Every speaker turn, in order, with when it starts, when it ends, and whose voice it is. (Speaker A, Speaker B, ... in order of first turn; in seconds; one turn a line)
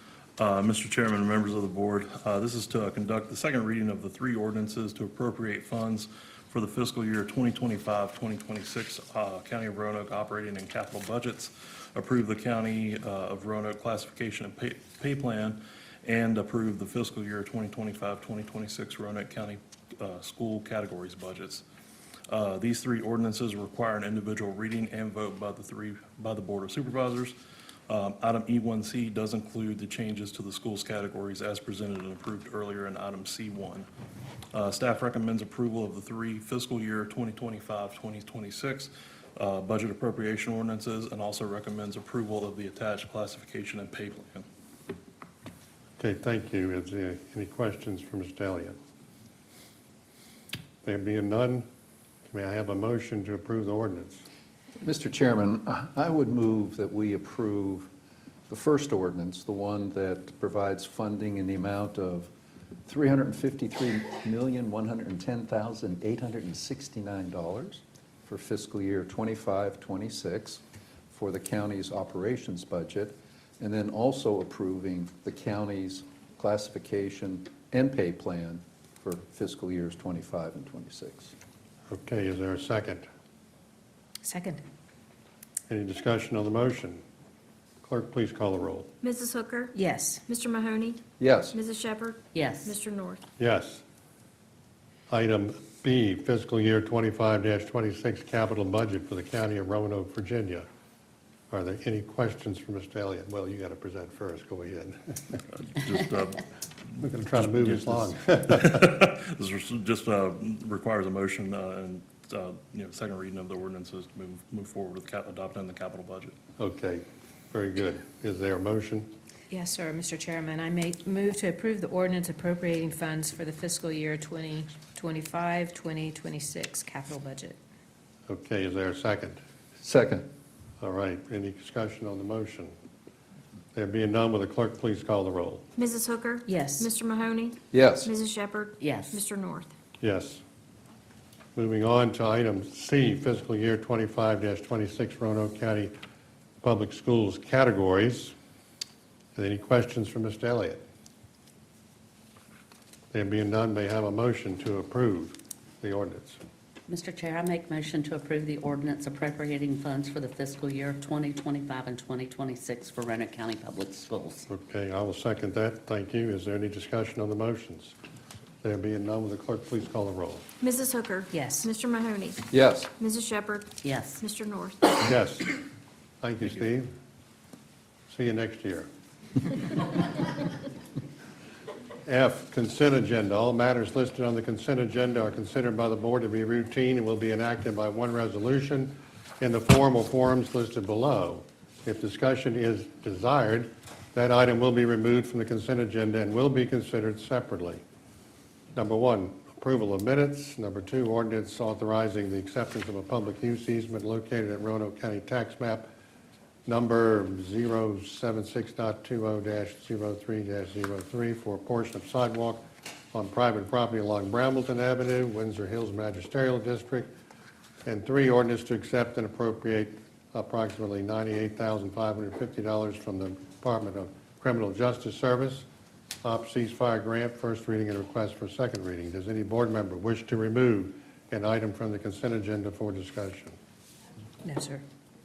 Speaker A: 0.4-21.6
Speaker A: 22.3-27.3
Speaker A: 27.9-33.9
Speaker A: 34.5-44.5
Speaker B: 46.0-48.8
Speaker B: 50.8-51.6
Speaker B: 52.3-54.2
Speaker C: 54.8-57.9
Speaker C: 58.5-62.3
Speaker C: 62.9-81.3
Speaker B: 81.9-83.0
Speaker D: 84.2-84.6
Speaker B: 85.7-87.0
Speaker B: 87.8-88.9
Speaker E: 89.0-89.8
Speaker D: 89.7-90.2
Speaker E: 90.3-91.0
Speaker C: 91.2-91.6
Speaker E: 91.5-93.2
Speaker F: 92.3-92.7
Speaker B: 93.4-93.8
Speaker B: 95.1-100.7
Speaker B: 101.5-105.4
Speaker A: 105.6-106.4
Speaker B: 107.0-109.0
Speaker A: 107.4-116.3
Speaker B: 116.6-119.1
Speaker D: 119.5-127.6
Speaker B: 128.3-129.4
Speaker C: 129.8-130.3
Speaker B: 130.8-132.7
Speaker B: 133.7-135.6
Speaker E: 135.8-139.7
Speaker D: 136.4-136.9
Speaker C: 137.7-138.1
Speaker F: 138.8-139.2
Speaker B: 140.0-140.4
Speaker B: 141.5-145.9
Speaker B: 146.6-148.3
Speaker B: 149.3-150.8
Speaker B: 153.1-156.4
Speaker F: 156.9-164.4
Speaker B: 164.5-167.9
Speaker B: 168.6-170.4
Speaker E: 170.6-175.0
Speaker D: 171.3-171.7
Speaker C: 172.5-172.9
Speaker F: 173.8-174.2
Speaker B: 175.0-175.5
Speaker B: 176.2-176.9
Speaker B: 178.1-178.9
Speaker B: 182.1-197.8
Speaker B: 198.7-205.9
Speaker B: 206.7-217.1
Speaker B: 217.8-225.7
Speaker B: 226.2-233.6
Speaker D: 234.4-234.8